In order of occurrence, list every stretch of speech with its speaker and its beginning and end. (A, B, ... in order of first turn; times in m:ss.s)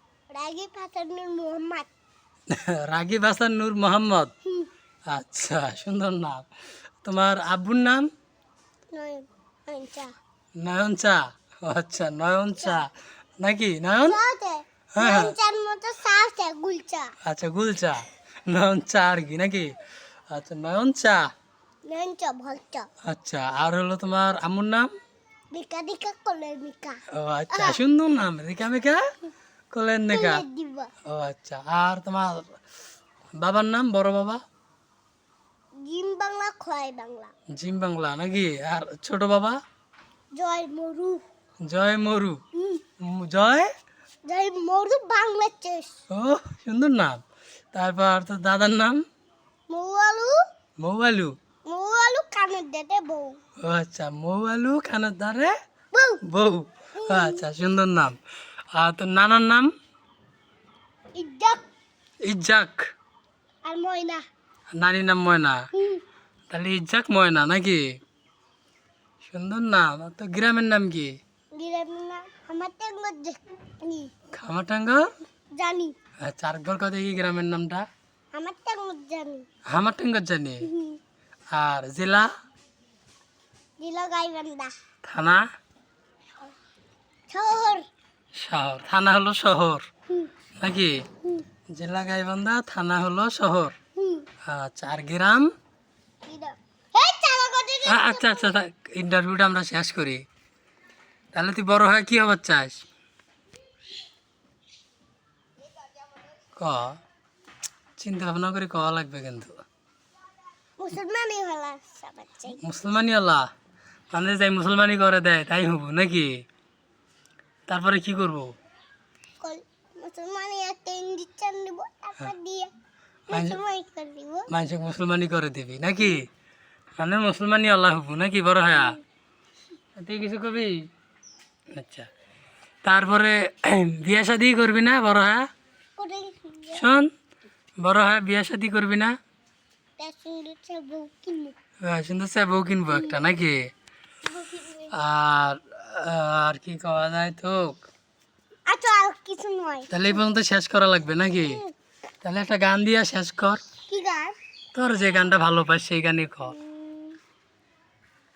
0:00.3-0:01.9 A
0:02.5-0:04.3 B
0:05.1-0:06.5 B
0:07.0-0:08.1 B
0:08.9-0:10.1 A
0:10.6-0:12.9 B
0:12.6-0:12.8 A
0:13.4-0:14.2 B
0:14.0-0:17.1 A
0:14.9-0:15.3 B
0:17.2-0:19.7 B
0:20.3-0:21.2 B
0:21.9-0:22.9 A
0:23.1-0:24.9 B
0:25.5-0:27.0 A
0:27.1-0:29.0 B
0:27.5-0:27.8 A
0:29.7-0:30.4 B
0:30.1-0:30.9 A
0:31.1-0:32.5 B
0:33.4-0:34.4 B
0:35.8-0:37.3 A
0:37.5-0:39.6 B
0:40.4-0:41.2 A
0:41.6-0:42.4 B
0:42.6-0:42.8 A
0:43.0-0:43.7 B
0:44.2-0:46.0 A
0:46.1-0:47.2 B
0:47.7-0:49.0 B
0:49.7-0:50.3 A
0:50.8-0:51.3 B
0:51.7-0:53.4 A
0:53.6-0:55.5 B
0:55.9-0:56.2 A
0:56.2-0:58.2 B
0:57.0-0:57.4 A
0:58.7-0:59.7 B
1:01.2-1:01.6 A
1:02.2-1:02.8 B
1:03.6-1:04.2 A
1:04.7-1:05.6 B
1:05.8-1:06.0 A
1:06.5-1:07.8 B
1:09.2-1:11.2 B
1:11.6-1:14.1 A
1:14.4-1:15.1 B
1:15.6-1:16.0 A
1:16.2-1:17.9 B
1:18.3-1:19.4 A
1:19.7-1:20.7 B
1:20.6-1:21.0 A
1:21.5-1:22.3 B
1:23.8-1:24.7 A
1:25.0-1:25.4 B
1:27.3-1:27.9 A
1:28.4-1:29.9 B
1:30.6-1:31.0 B
1:31.7-1:33.8 B
1:34.0-1:34.3 A
1:34.4-1:35.5 B
1:36.3-1:38.5 A
1:37.8-1:40.2 B
1:41.3-1:42.8 B
1:46.6-1:47.0 B
1:48.0-1:49.6 B
1:50.8-1:52.6 A
1:52.6-1:53.5 B
1:54.1-1:56.4 B
1:57.7-1:58.5 B
1:59.4-2:02.7 A
2:03.3-2:04.5 A
2:03.3-2:03.6 B
2:04.5-2:06.3 B
2:07.0-2:09.0 B
2:10.0-2:10.7 B
2:11.8-2:12.1 B
2:12.8-2:15.4 B
2:16.0-2:16.8 A
2:16.7-2:17.1 B
2:17.8-2:19.1 B
2:20.0-2:21.6 A
2:21.8-2:23.7 B
2:22.9-2:23.3 A
2:24.2-2:24.9 A
2:24.9-2:27.8 B
2:28.7-2:29.9 A
2:29.9-2:31.6 B
2:31.4-2:31.7 A
2:32.2-2:33.6 B
2:33.9-2:34.4 A
2:34.7-2:36.6 B
2:36.5-2:37.2 A